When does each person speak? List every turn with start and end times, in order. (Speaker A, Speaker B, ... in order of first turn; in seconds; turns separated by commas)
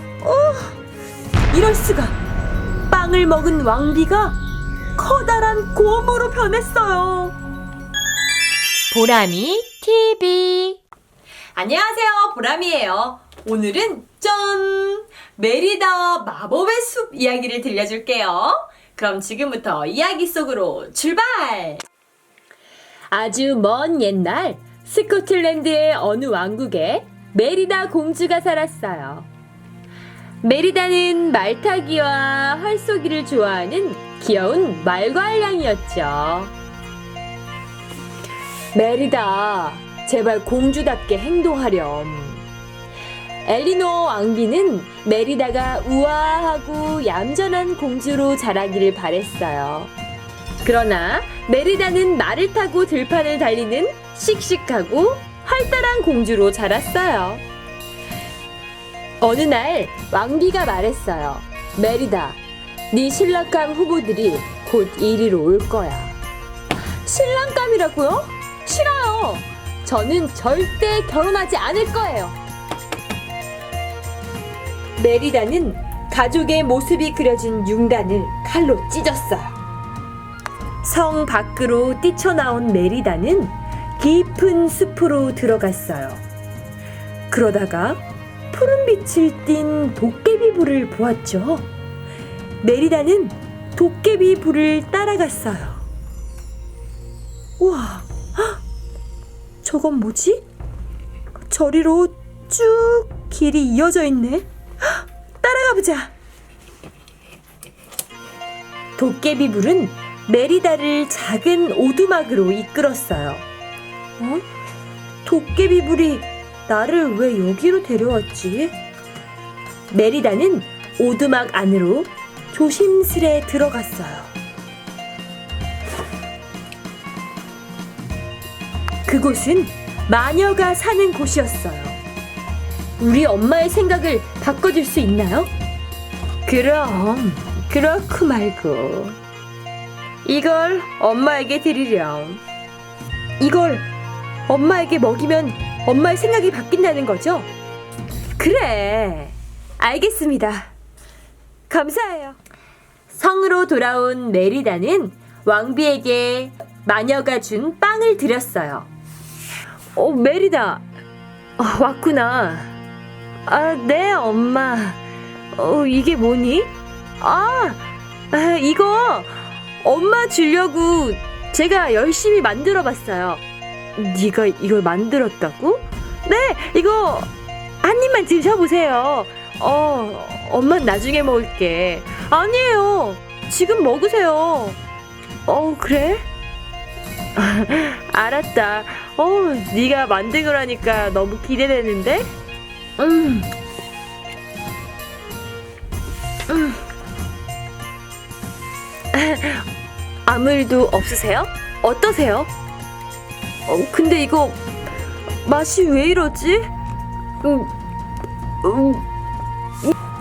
Speaker A: 0.2-0.8, Speaker A: 1.5-2.1, Speaker A: 2.9-4.4, Speaker A: 5.0-7.3, Speaker A: 8.9-10.8, Speaker A: 11.5-21.8, Speaker A: 23.1-29.3, Speaker A: 30.4-36.5, Speaker A: 38.7-42.4, Speaker A: 43.5-49.9, Speaker A: 50.6-57.4, Speaker A: 59.2-62.4, Speaker A: 62.9-66.2, Speaker A: 66.9-72.4, Speaker A: 75.0-79.5, Speaker A: 80.8-86.2, Speaker A: 87.3-91.7, Speaker A: 92.6-95.8, Speaker A: 97.6-98.6, Speaker A: 99.6-100.4, Speaker A: 101.4-106.1, Speaker A: 109.0-113.4, Speaker A: 114.2-114.4, Speaker A: 115.2-118.7, Speaker A: 119.9-124.3, Speaker A: 129.1-132.0, Speaker A: 133.0-135.5, Speaker A: 136.4-139.2, Speaker A: 140.2-142.4, Speaker A: 143.4-143.9, Speaker A: 144.5-147.5, Speaker A: 148.4-150.7, Speaker A: 151.7-152.4, Speaker A: 153.1-158.9, Speaker A: 159.9-160.8, Speaker A: 161.6-162.7, Speaker A: 163.4-165.0, Speaker A: 165.5-173.4, Speaker A: 173.9-177.3, Speaker A: 177.8-184.8, Speaker A: 185.5-186.2, Speaker A: 187.3-192.3, Speaker A: 193.0-193.5, Speaker A: 196.5-196.8, Speaker A: 199.1-199.7, Speaker A: 200.2-202.5, Speaker A: 203.7-204.6, Speaker A: 205.4-206.7, Speaker A: 207.4-207.7, Speaker A: 208.6-209.0